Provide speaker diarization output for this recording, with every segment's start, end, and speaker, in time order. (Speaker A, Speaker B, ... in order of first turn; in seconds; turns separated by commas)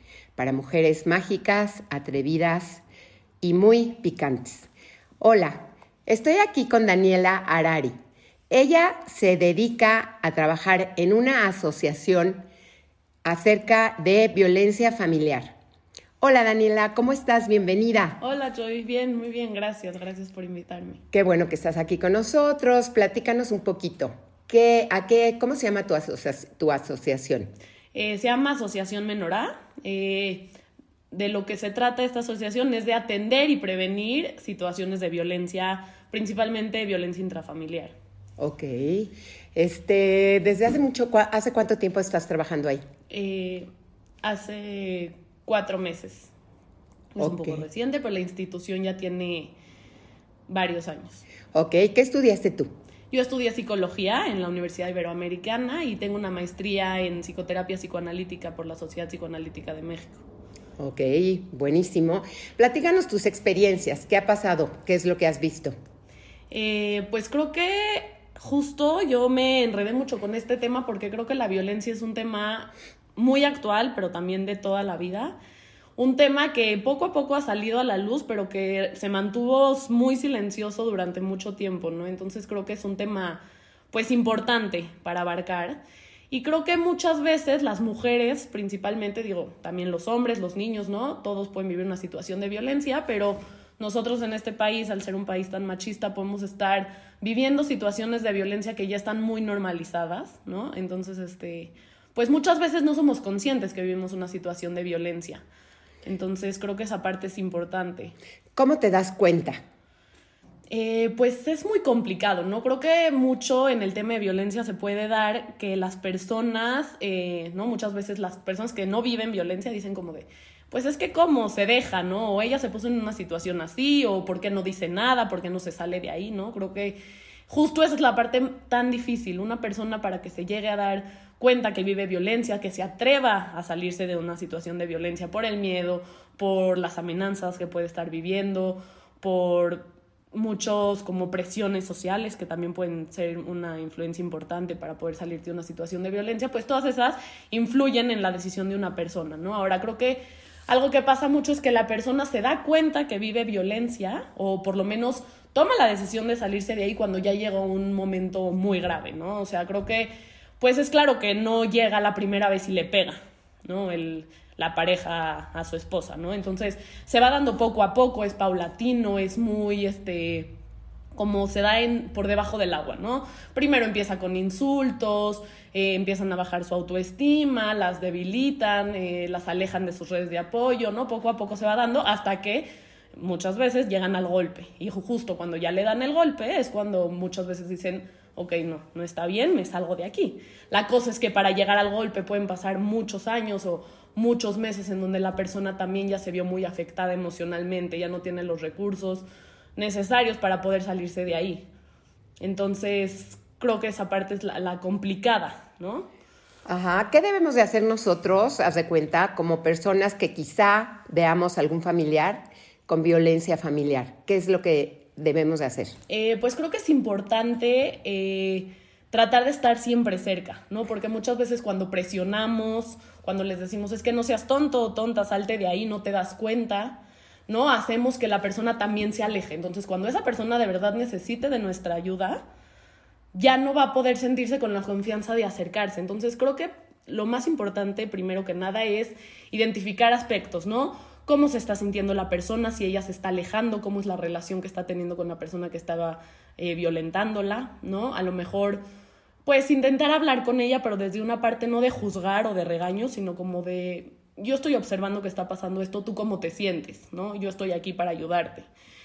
Speaker A: 0.4-2.8, Speaker A: 3.4-4.7, Speaker A: 5.2-7.9, Speaker A: 8.5-12.4, Speaker A: 13.2-15.5, Speaker A: 16.2-18.2, Speaker B: 18.2-21.0, Speaker A: 21.1-27.5, Speaker B: 27.9-30.5, Speaker B: 31.1-37.9, Speaker A: 38.4-42.8, Speaker B: 43.1-43.6, Speaker B: 44.2-46.3, Speaker B: 47.1-49.5, Speaker A: 47.2-47.6, Speaker B: 50.5-51.2, Speaker A: 51.5-52.7, Speaker B: 53.1-60.2, Speaker A: 60.8-65.7, Speaker B: 66.5-75.3, Speaker B: 76.0-105.4, Speaker B: 106.0-108.1, Speaker A: 108.5-109.6, Speaker B: 110.7-127.0, Speaker B: 127.5-170.5, Speaker B: 171.1-182.6, Speaker B: 183.2-199.2, Speaker B: 199.8-201.7, Speaker B: 202.4-206.1, Speaker A: 206.7-215.9, Speaker B: 216.1-232.4, Speaker B: 233.3-248.8, Speaker B: 249.4-258.7